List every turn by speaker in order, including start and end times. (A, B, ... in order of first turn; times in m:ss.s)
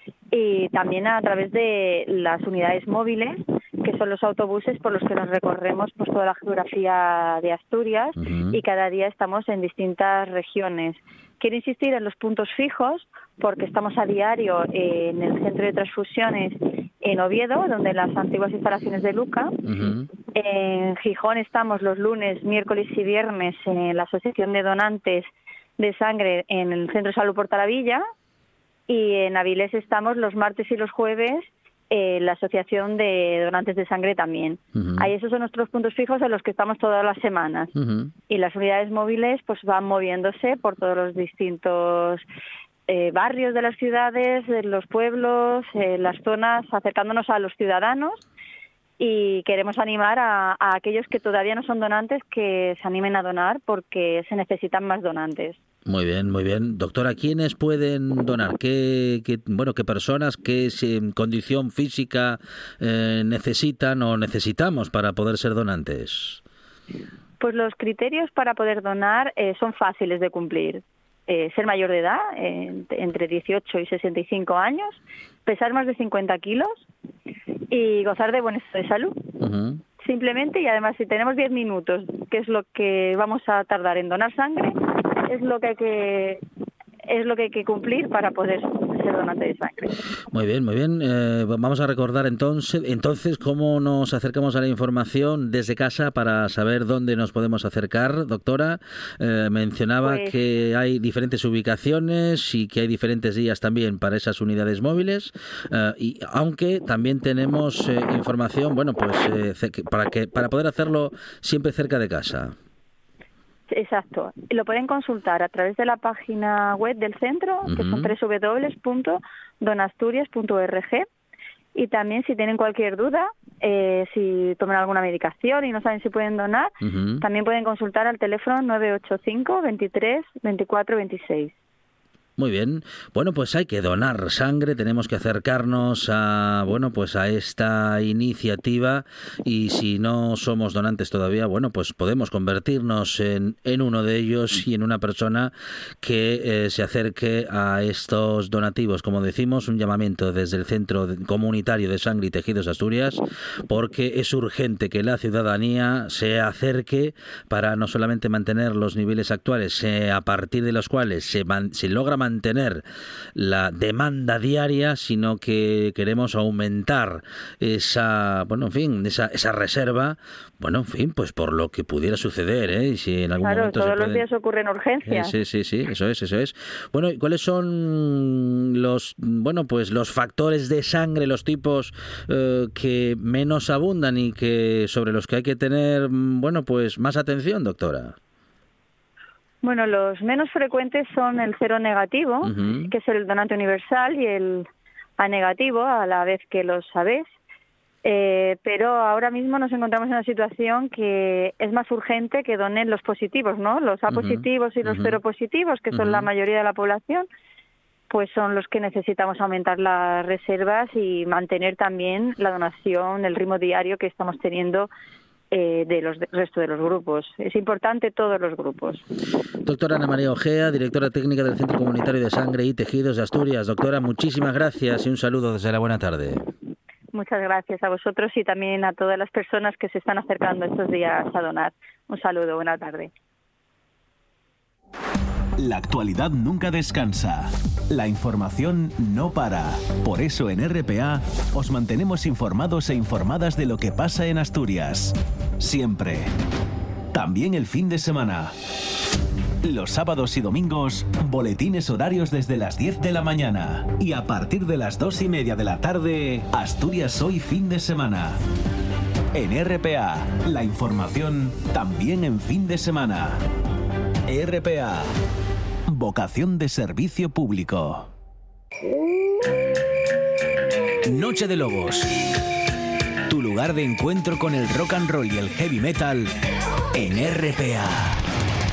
0:00.3-0:19.6 A
0:08.2-0:08.6 B
0:19.6-0:20.1 B
0:20.3-0:28.0 A
0:28.9-0:37.7 A
0:34.7-0:35.1 B
0:37.7-0:38.1 B
0:38.3-0:42.2 A
0:42.9-0:48.2 A
0:49.0-0:55.6 A
0:55.8-1:06.4 B
1:07.4-1:16.8 A
1:17.7-1:19.2 A
1:19.4-1:19.8 B
1:20.0-1:26.4 A
1:27.1-1:30.0 A
1:30.3-1:52.5 B
1:40.0-1:40.3 A
1:53.7-2:01.0 A
1:57.6-1:58.1 B
2:01.7-2:11.5 A
2:06.8-2:07.2 B
2:12.4-2:42.8 B
2:43.4-2:54.2 B
2:53.4-2:55.4 A
2:55.0-3:08.2 B
3:09.6-3:14.7 A
3:12.4-3:12.9 B
3:15.2-3:17.3 A
3:18.0-3:27.3 A
3:24.1-3:25.2 B
3:25.9-3:26.3 B
3:28.1-3:34.9 A
3:35.5-3:39.0 A
3:39.6-3:46.4 B
3:47.1-3:53.1 A
3:55.6-4:06.3 C
4:07.1-4:08.5 C
4:09.6-4:18.4 C
4:19.3-4:23.4 C
4:24.3-4:25.1 C
4:25.9-4:28.1 C
4:31.1-4:32.1 C
4:33.3-4:36.3 C
4:36.9-4:38.2 C